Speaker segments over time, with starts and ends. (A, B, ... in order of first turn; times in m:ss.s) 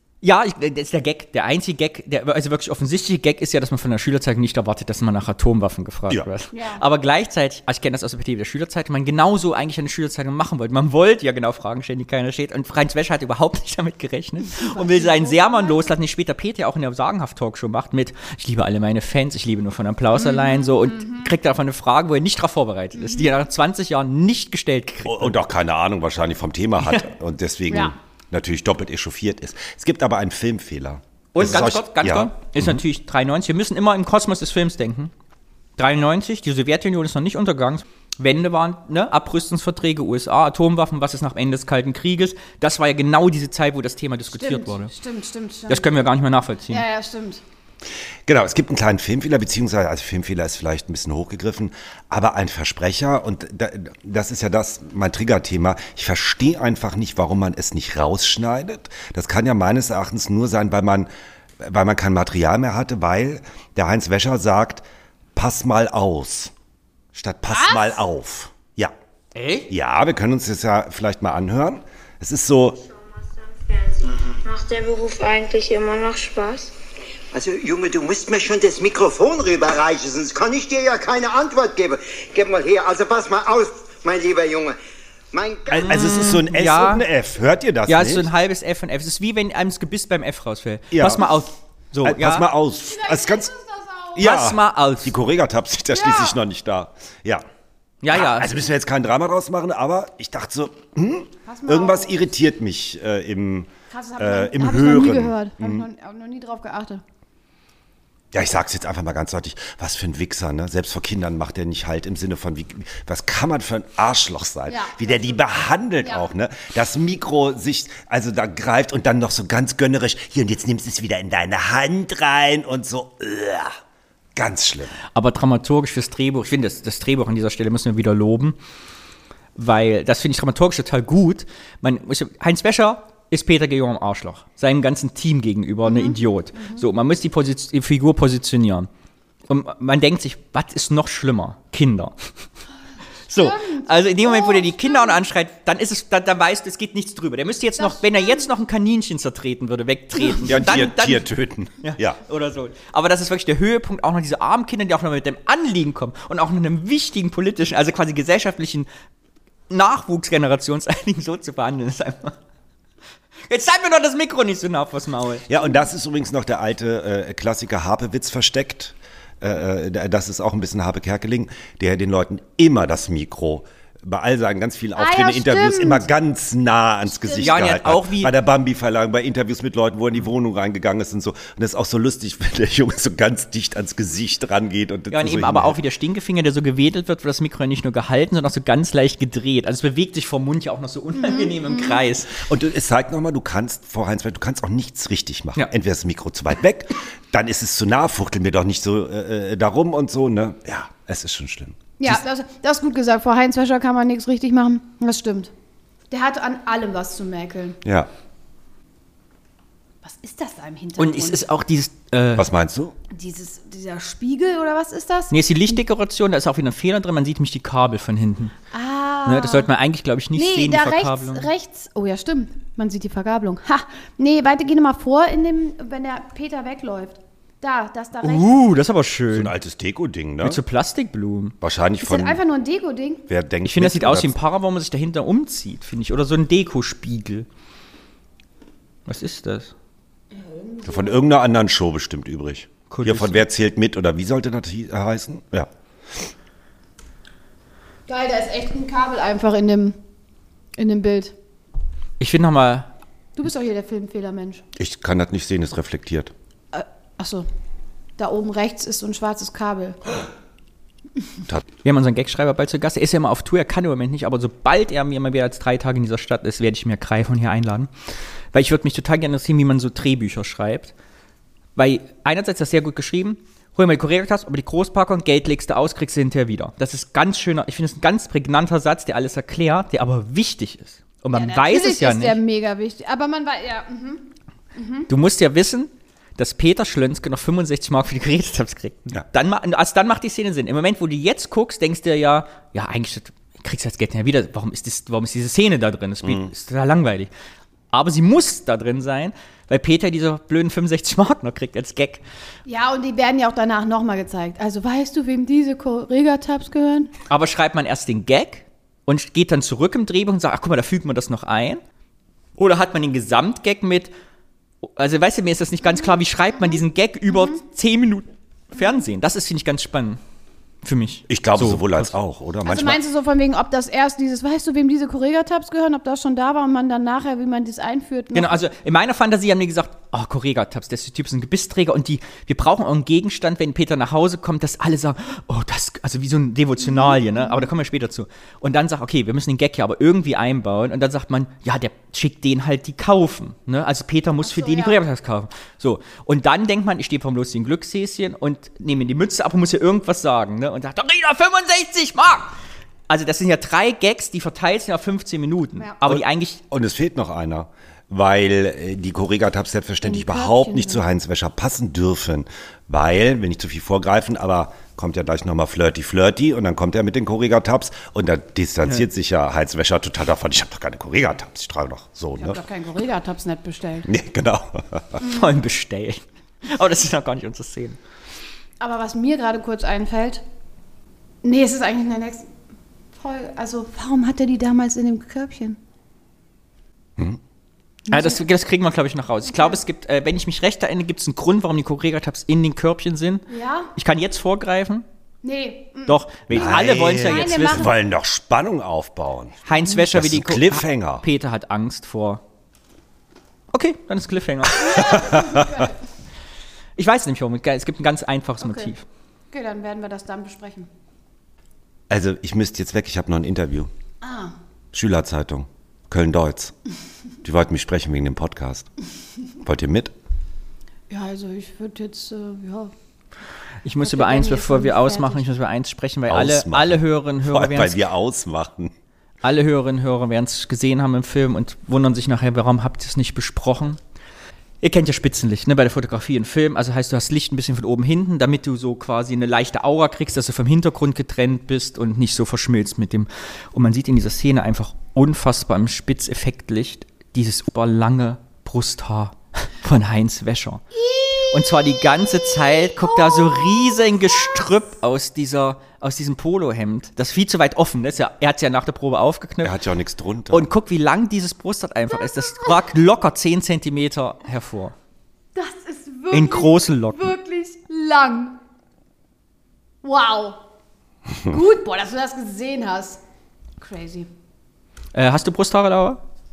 0:00.2-0:25.4 A
0:06.5-0:06.8 B
0:14.6-0:15.9 B
0:20.1-0:21.3 B
0:22.9-0:23.3 B
0:25.0-0:32.8 C
0:27.7-0:27.9 B
0:31.3-0:35.1 A
0:35.8-0:44.9 A
0:44.3-0:46.0 B
0:45.7-0:46.8 A
0:46.7-0:47.4 B
0:48.3-1:01.1 C
1:01.6-1:04.8 C
1:05.3-1:06.5 C
1:07.1-1:08.9 C
1:07.5-1:08.0 B
1:09.3-1:09.7 A
1:09.7-1:12.8 C
1:12.9-1:16.7 D
1:17.3-1:24.8 E
1:25.3-1:26.0 E
1:25.7-1:28.3 C
1:25.8-1:27.0 A
1:27.9-1:32.5 A
1:30.9-1:31.2 C
1:32.0-1:33.5 C
1:32.8-1:34.2 B
1:34.1-1:37.4 C
1:34.2-1:35.1 A
1:35.9-1:36.4 B
1:38.0-1:38.5 A
1:38.1-1:45.9 C
1:41.4-1:42.3 B
1:43.9-1:47.0 B
1:48.3-2:03.8 C
1:54.7-1:55.4 B
2:04.4-2:05.0 C
2:05.1-2:08.6 A
2:09.6-2:18.9 A
2:15.8-2:16.8 B
2:19.5-2:22.5 A
2:23.3-2:31.3 A
2:23.3-2:25.2 B
2:27.8-2:28.4 B
2:30.4-2:32.2 C
2:31.8-2:38.9 A
2:39.7-2:42.4 A
2:43.5-2:45.4 A
2:45.5-3:05.8 C
2:55.0-2:56.1 B
2:57.1-2:57.7 B
2:57.4-2:58.3 A
3:05.1-3:12.5 A
3:11.1-3:12.0 B
3:12.3-3:21.8 C
3:22.0-3:25.5 B
3:26.1-3:27.8 B
3:27.8-3:28.1 C
3:30.0-3:31.5 B
3:31.0-3:32.5 A
3:32.4-3:32.9 C
3:33.1-3:35.3 B
3:35.3-3:38.5 A
3:38.7-3:39.7 B
3:39.2-3:41.5 A
3:40.3-3:48.5 B
3:48.2-3:49.5 A
3:49.3-3:50.6 C
3:50.4-3:51.6 A
3:51.6-3:52.4 C
3:52.0-3:53.2 B
3:53.3-3:54.3 C
3:53.6-3:57.4 A
3:59.1-3:59.7 A
4:00.3-4:01.2 B
4:00.8-4:06.3 C
4:02.9-4:03.5 A
4:08.1-4:10.0 B
4:10.8-4:11.4 B
4:12.2-4:12.9 A
4:13.4-4:14.6 B
4:14.8-4:16.3 C
4:16.7-4:17.5 B
4:18.2-4:20.1 B
4:21.8-4:30.9 A
4:31.8-4:42.4 A
4:41.3-4:45.1 B
4:45.1-4:57.3 A
4:56.2-4:56.5 C
4:57.9-5:02.2 A
5:02.6-5:07.1 B
5:07.3-5:11.8 A
5:12.6-5:14.1 A
5:14.8-5:20.2 A
5:16.0-5:17.6 B
5:20.8-5:22.1 A
5:21.3-5:23.0 C
5:22.6-5:28.6 B
5:28.3-5:52.6 A
5:36.8-5:37.7 B
5:44.4-5:45.0 B
5:53.1-5:56.6 A
5:56.0-6:12.6 C
6:00.0-6:01.0 B
6:12.4-6:14.1 B
6:14.0-6:15.2 C
6:15.2-6:18.0 A
6:18.8-6:20.4 B
6:21.4-6:22.5 B
6:23.1-6:25.8 B
6:28.1-6:28.4 B
6:28.1-6:35.0 A
6:29.5-6:29.8 B
6:33.5-6:33.9 B
6:35.4-6:37.9 B
6:36.1-6:37.9 A
6:36.5-6:41.2 C
6:39.6-6:42.4 A
6:43.7-6:45.3 A
6:44.8-6:46.0 B
6:44.9-6:45.6 C
6:47.0-6:49.0 A
6:48.6-6:48.9 B
6:49.5-6:50.9 B
6:52.1-6:53.9 C
6:54.2-6:54.5 B
6:54.9-6:56.7 C
6:57.4-6:58.9 C
6:59.6-7:00.1 C
7:01.1-7:02.9 B
7:03.8-7:08.0 A
7:04.0-7:05.5 B
7:06.3-7:08.9 C
7:09.4-7:14.0 A
7:14.8-7:30.8 A
7:31.1-7:31.6 B
7:31.5-7:39.8 A
7:33.0-7:33.9 B
7:39.6-7:40.7 C
7:40.5-7:45.0 A
7:45.5-7:48.6 B
7:46.3-7:47.4 A
7:50.0-7:50.6 B
7:51.5-7:53.2 B
7:53.8-7:54.3 B
7:55.1-7:56.2 A